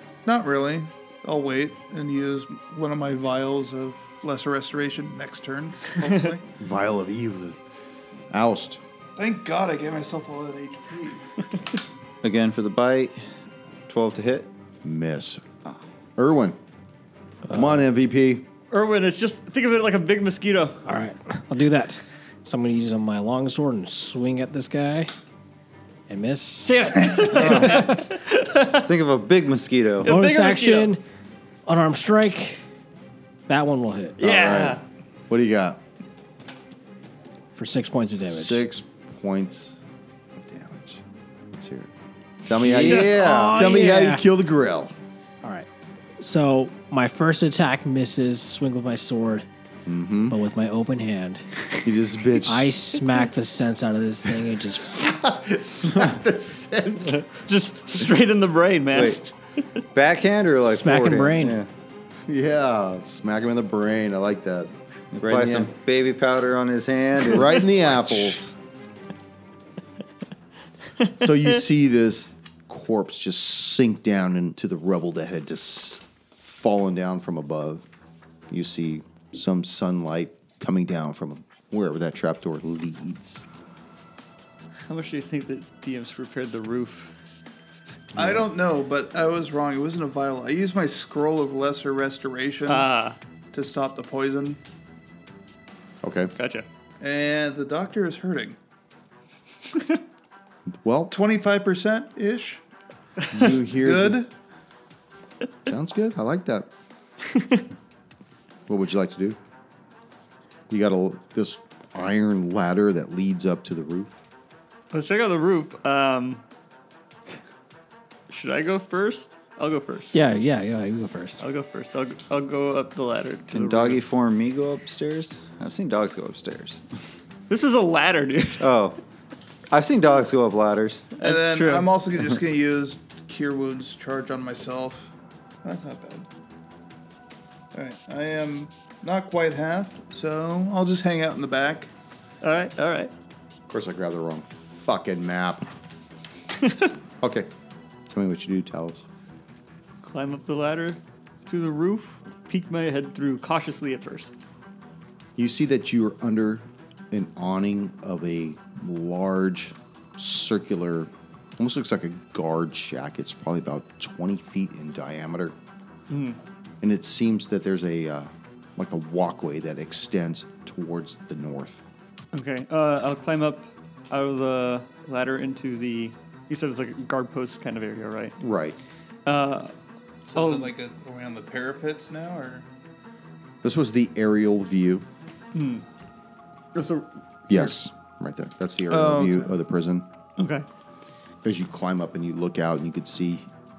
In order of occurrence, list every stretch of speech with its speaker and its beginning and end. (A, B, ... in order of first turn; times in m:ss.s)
0:00.2-0:06.5 A
0:06.6-0:07.6 B
0:08.3-0:08.8 B
0:09.2-0:11.3 A
0:12.2-0:13.2 C
0:13.9-0:14.5 C
0:14.8-0:15.6 B
0:16.2-0:16.6 B
0:17.5-0:17.8 D
0:17.5-0:18.5 B
0:18.7-0:20.8 E
0:20.8-0:25.1 D
0:26.1-0:27.9 D
0:26.6-0:28.9 E
0:27.2-0:27.7 A
0:27.3-0:28.0 C
0:28.8-0:30.2 C
0:30.0-0:31.0 E
0:30.0-0:31.0 D
0:31.7-0:32.6 D
0:33.5-0:34.2 D
0:34.2-0:34.8 E
0:34.2-0:35.8 B
0:37.6-0:38.6 D
0:38.3-0:39.8 B
0:40.4-0:41.9 B
0:42.4-0:44.9 B
0:42.6-0:43.6 C
0:42.9-0:44.2 D
0:46.2-0:49.5 D
0:49.9-0:50.4 B
0:50.3-0:51.5 D
0:51.8-0:52.8 B
0:52.4-0:55.1 D
0:54.8-0:57.3 B
0:57.4-0:59.3 E
0:58.9-0:59.2 C
0:59.9-1:01.7 C
1:00.6-1:01.6 D
1:02.2-1:05.7 B
1:05.1-1:07.9 C
1:07.2-1:08.5 B
1:11.2-1:17.9 B
1:18.5-1:23.4 B
1:24.9-1:27.1 E
1:28.2-1:32.9 A
1:28.2-1:28.4 B
1:32.7-1:33.2 E
1:33.5-1:34.6 A
1:36.0-1:36.3 B
1:36.4-1:36.7 E
1:37.0-1:38.6 A
1:40.7-1:41.1 B
1:41.1-1:42.6 A
1:43.3-1:44.2 B
1:43.6-1:44.3 A
1:45.7-1:46.7 B
1:47.3-1:47.6 E
1:48.7-1:49.4 B
1:50.7-1:54.1 B
1:54.9-1:56.4 E
1:58.3-2:00.2 E
2:00.1-2:01.4 D
2:01.4-2:04.0 E
2:03.5-2:06.8 C
2:07.5-2:08.7 E
2:08.6-2:09.0 C
2:09.7-2:11.1 C
2:11.2-2:15.1 A
2:11.2-2:11.9 E
2:15.6-2:16.3 A
2:17.7-2:21.9 A
2:22.4-2:23.1 E
2:23.7-2:25.7 B
2:26.6-2:26.9 E
2:27.2-2:27.5 B
2:28.1-2:29.0 B
2:30.0-2:34.3 E
2:35.4-2:45.6 B
2:46.1-2:46.4 E
2:46.8-2:51.8 B
2:52.3-2:58.4 E
2:58.4-2:58.8 B
2:59.3-2:59.7 E
3:00.3-3:02.7 A
3:00.3-3:00.7 E
3:03.6-3:05.1 B
3:05.5-3:05.8 E
3:06.7-3:07.8 E
3:07.5-3:10.1 B
3:08.9-3:09.5 A
3:10.4-3:10.7 E
3:11.4-3:13.5 B